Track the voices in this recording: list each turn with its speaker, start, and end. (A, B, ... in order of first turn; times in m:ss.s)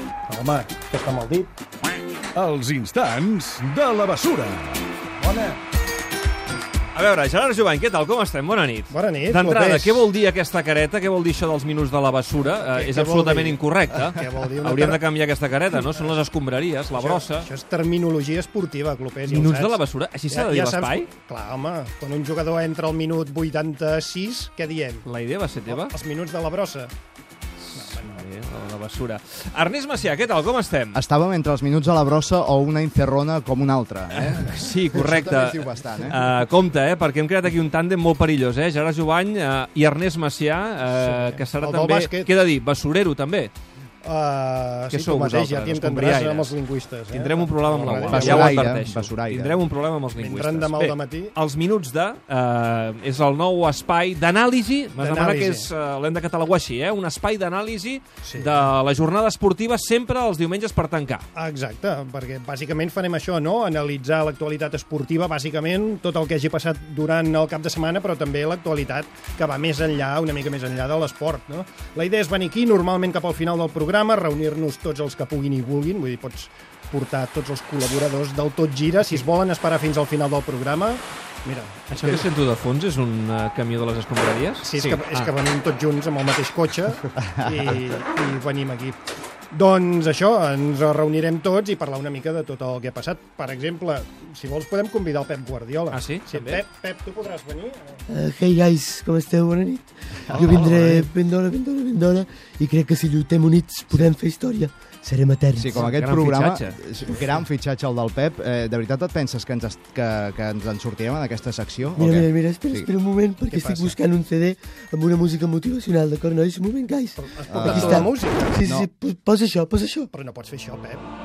0:00.3-0:01.5 A
0:02.3-0:04.9 B
0:05.2-0:05.6 A
0:07.0-0:17.5 C
0:08.9-0:10.1 A
0:12.4-0:15.1 A
0:15.7-0:16.2 A
0:16.9-0:25.0 A
0:19.3-0:21.1 C
0:25.0-0:25.9 C
0:25.7-0:26.9 A
0:27.6-0:31.0 C
0:27.8-0:28.2 A
0:30.9-0:36.2 D
0:34.1-0:43.5 C
0:40.9-0:42.3 A
0:44.0-0:48.6 A
0:44.9-1:01.3 C
0:48.1-0:49.6 D
0:50.2-0:51.3 A
0:55.0-0:55.7 A
0:58.2-0:58.7 A
1:01.3-1:22.3 A
1:21.9-1:24.7 C
1:24.6-1:29.0 A
1:24.8-1:25.2 D
1:29.5-1:38.0 A
1:35.9-1:36.6 C
1:38.1-1:45.9 E
1:40.3-1:41.0 C
1:45.6-1:52.9 D
1:45.7-1:46.8 C
1:52.0-2:00.1 E
1:53.5-1:54.0 A
1:57.2-1:58.6 A
1:57.5-1:58.9 D
2:00.1-2:01.1 A